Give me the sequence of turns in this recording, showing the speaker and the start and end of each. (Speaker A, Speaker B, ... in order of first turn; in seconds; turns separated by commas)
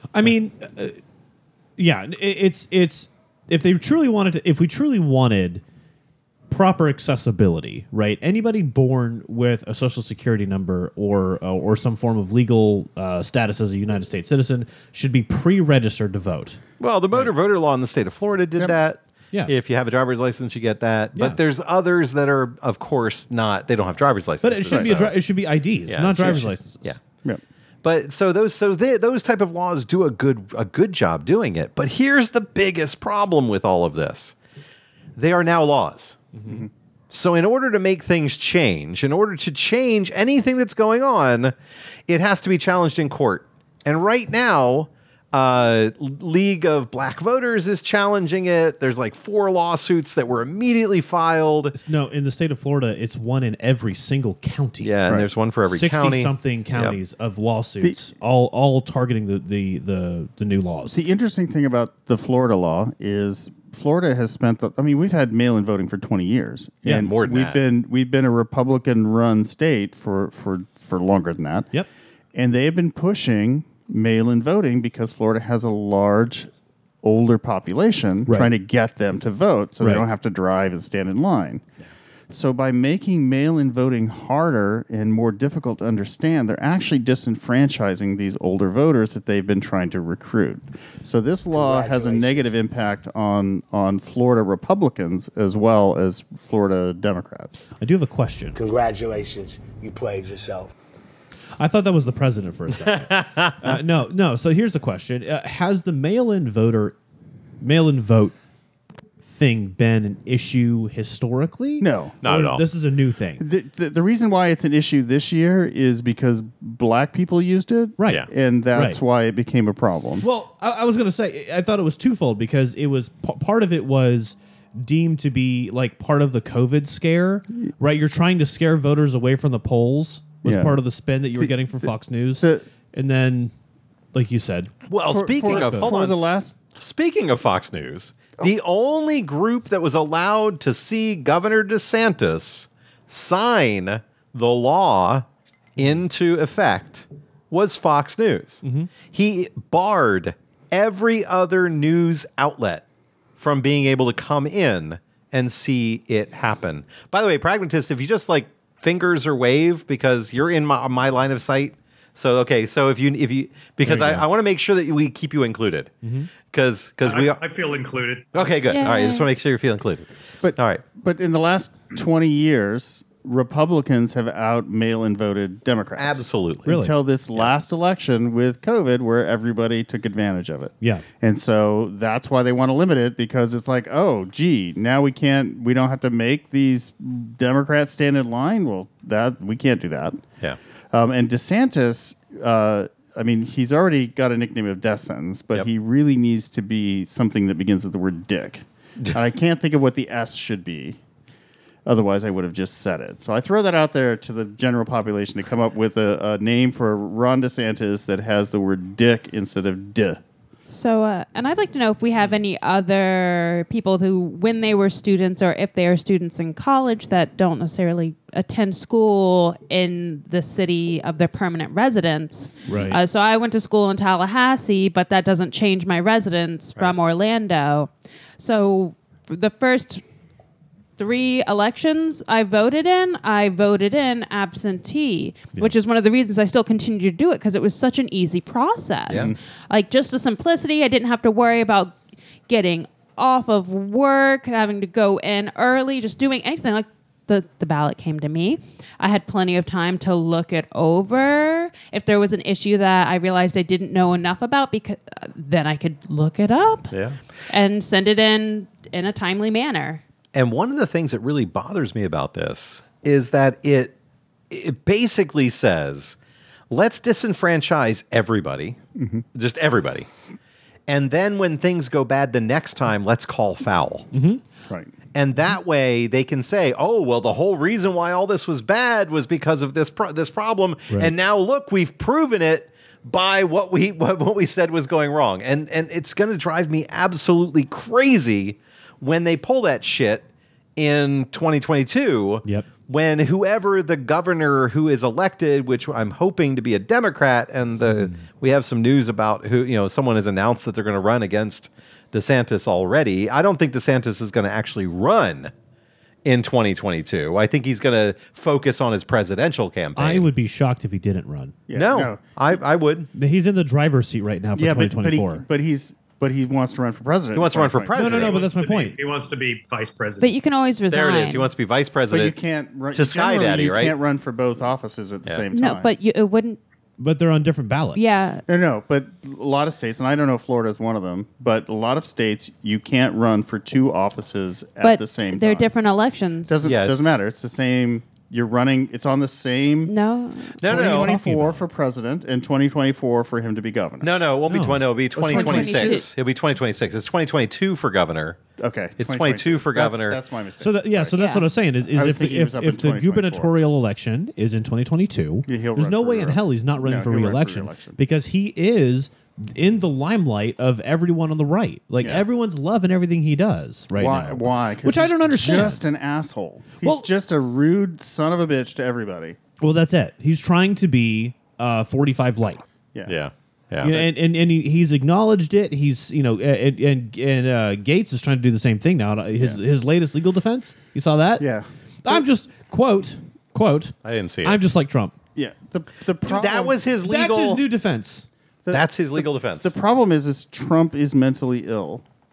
Speaker A: 0.1-1.0, Speaker A: 1.8-5.6, Speaker A: 6.5-16.6, Speaker B: 16.8-25.2, Speaker A: 24.4-26.9, Speaker C: 24.7-24.9, Speaker B: 25.9-27.0, Speaker B: 27.8-34.3, Speaker B: 35.1-36.2, Speaker A: 36.3-36.6, Speaker B: 37.1-41.5, Speaker B: 42.1-51.8, Speaker A: 51.7-54.9, Speaker B: 54.8-57.0, Speaker A: 55.6-61.0, Speaker C: 60.9-71.7, Speaker B: 66.9-67.6, Speaker C: 72.3-76.5, Speaker C: 77.0-81.6, Speaker A: 78.3-78.5, Speaker A: 79.8-80.0, Speaker C: 82.3-97.6, Speaker D: 91.5-92.3, Speaker A: 97.8-98.6, Speaker D: 98.6-100.7, Speaker A: 101.6-107.0, Speaker B: 102.9-103.7, Speaker A: 107.6-108.3, Speaker A: 109.2-113.4, Speaker C: 111.8-112.2, Speaker B: 112.2-112.6, Speaker C: 113.4-120.2, Speaker A: 118.0-119.0, Speaker A: 120.2-133.5, Speaker C: 130.4-130.8, Speaker C: 131.3-132.7, Speaker A: 134.1-134.7, Speaker B: 134.9-145.2, Speaker C: 135.1-136.6, Speaker A: 135.4-135.9, Speaker B: 145.8-152.8, Speaker A: 148.6-148.9, Speaker B: 153.4-165.9, Speaker A: 163.8-164.2, Speaker A: 166.0-166.3, Speaker B: 166.5-167.4, Speaker E: 167.0-168.5, Speaker B: 168.3-170.8, Speaker F: 168.7-169.3, Speaker C: 170.4-190.2, Speaker B: 176.0-176.7, Speaker A: 176.7-176.9, Speaker C: 190.9-201.0, Speaker C: 201.8-210.2, Speaker F: 210.7-230.0, Speaker A: 222.7-223.0, Speaker F: 231.0-241.9, Speaker F: 242.5-256.9, Speaker B: 256.9-257.2, Speaker F: 257.5-260.0, Speaker B: 260.3-263.9, Speaker B: 264.5-266.2, Speaker B: 266.7-268.8, Speaker C: 268.9-269.2, Speaker B: 269.3-270.1, Speaker B: 270.9-274.1, Speaker A: 274.1-274.4, Speaker B: 275.1-290.2, Speaker B: 290.8-305.5, Speaker B: 306.2-310.3, Speaker A: 309.9-311.6, Speaker C: 311.7-312.6, Speaker B: 311.7-313.1, Speaker A: 313.1-315.4, Speaker C: 314.5-318.3, Speaker B: 317.3-318.4, Speaker A: 317.9-319.0, Speaker E: 318.1-320.3, Speaker F: 320.2-321.5, Speaker B: 320.9-322.3, Speaker C: 322.1-325.9, Speaker B: 322.9-323.9, Speaker F: 325.5-326.6, Speaker A: 327.0-328.1, Speaker F: 327.9-328.4, Speaker C: 328.5-335.7, Speaker F: 334.8-336.6, Speaker C: 336.5-339.9, Speaker B: 336.6-337.1, Speaker F: 339.9-340.9, Speaker B: 340.6-341.2, Speaker C: 340.6-344.1, Speaker A: 340.7-341.6, Speaker B: 344.0-348.4, Speaker A: 344.5-344.9, Speaker C: 345.1-346.0, Speaker F: 345.2-346.1, Speaker C: 348.6-351.2, Speaker B: 349.0-350.2, Speaker A: 350.6-365.8, Speaker F: 351.1-351.5, Speaker C: 351.8-353.5, Speaker C: 355.5-358.0, Speaker C: 362.0-362.2, Speaker C: 363.9-369.4, Speaker A: 366.8-367.1, Speaker A: 369.6-372.6, Speaker B: 373.1-373.9, Speaker A: 373.8-381.5, Speaker C: 381.4-382.2, Speaker A: 382.0-385.1, Speaker B: 384.0-384.6, Speaker C: 385.3-386.8, Speaker B: 386.2-387.6, Speaker A: 387.0-388.3, Speaker C: 388.6-392.0, Speaker B: 388.7-389.7